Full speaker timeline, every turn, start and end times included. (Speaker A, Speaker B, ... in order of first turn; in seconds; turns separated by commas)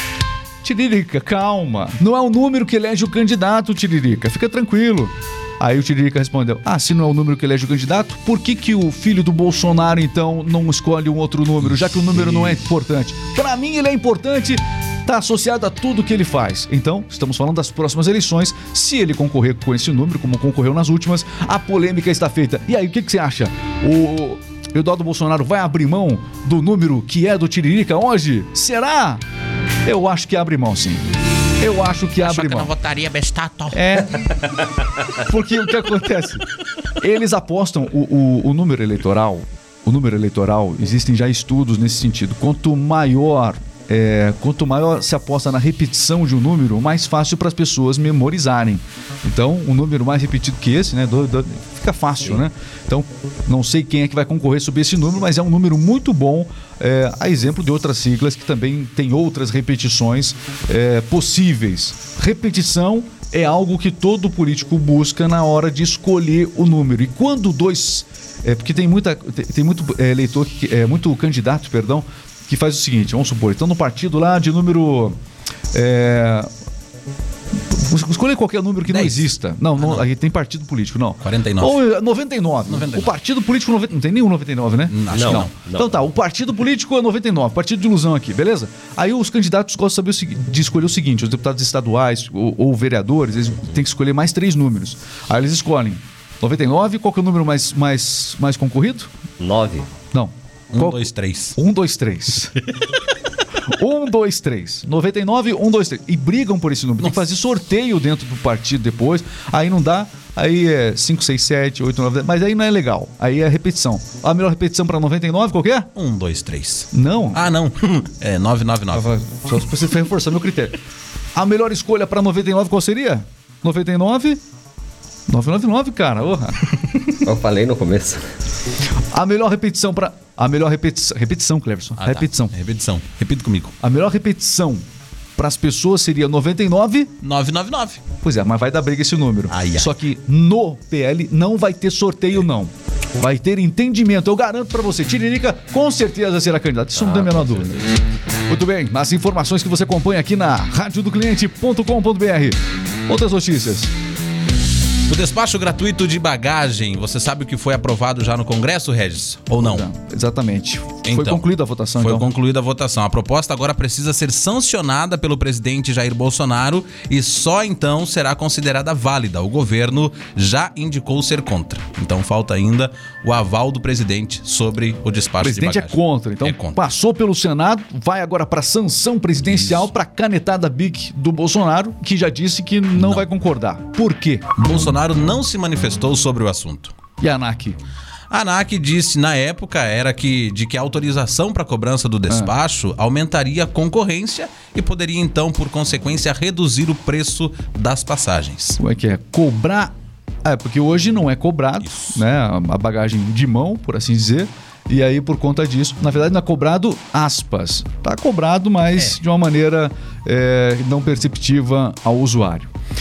Speaker A: 0.6-29.2, Speaker B: 11.8-12.6, Speaker A: 29.8-31.0, Speaker A: 31.6-32.7, Speaker B: 32.2-33.8, Speaker A: 33.7-34.2, Speaker A: 35.1-36.5, Speaker A: 37.0-75.2, Speaker A: 75.7-76.5, Speaker A: 77.7-99.1, Speaker B: 78.9-80.0, Speaker B: 81.2-81.8, Speaker B: 82.7-83.1, Speaker B: 84.9-85.5, Speaker C: 85.1-86.0, Speaker C: 99.4-99.9, Speaker A: 100.1-102.5, Speaker B: 100.7-101.6, Speaker A: 103.7-115.9, Speaker B: 107.0-107.3, Speaker B: 115.9-119.0, Speaker A: 116.9-117.4, Speaker A: 118.9-120.8, Speaker A: 121.3-124.4, Speaker A: 125.3-126.6, Speaker C: 127.2-128.2, Speaker A: 129.1-132.5, Speaker B: 132.0-133.7, Speaker A: 133.8-134.8, Speaker A: 135.3-137.1, Speaker B: 137.2-138.0, Speaker A: 138.2-147.9, Speaker B: 139.5-140.0, Speaker A: 148.5-152.6, Speaker A: 153.1-153.9, Speaker B: 155.1-159.9, Speaker A: 159.6-162.3, Speaker B: 161.0-176.8, Speaker A: 175.4-184.5, Speaker B: 179.4-179.9, Speaker B: 182.9-183.2, Speaker B: 184.6-186.9, Speaker A: 187.2-187.8, Speaker B: 188.3-198.8, Speaker A: 192.3-192.5, Speaker A: 198.8-199.9, Speaker A: 200.4-212.7, Speaker B: 201.8-202.2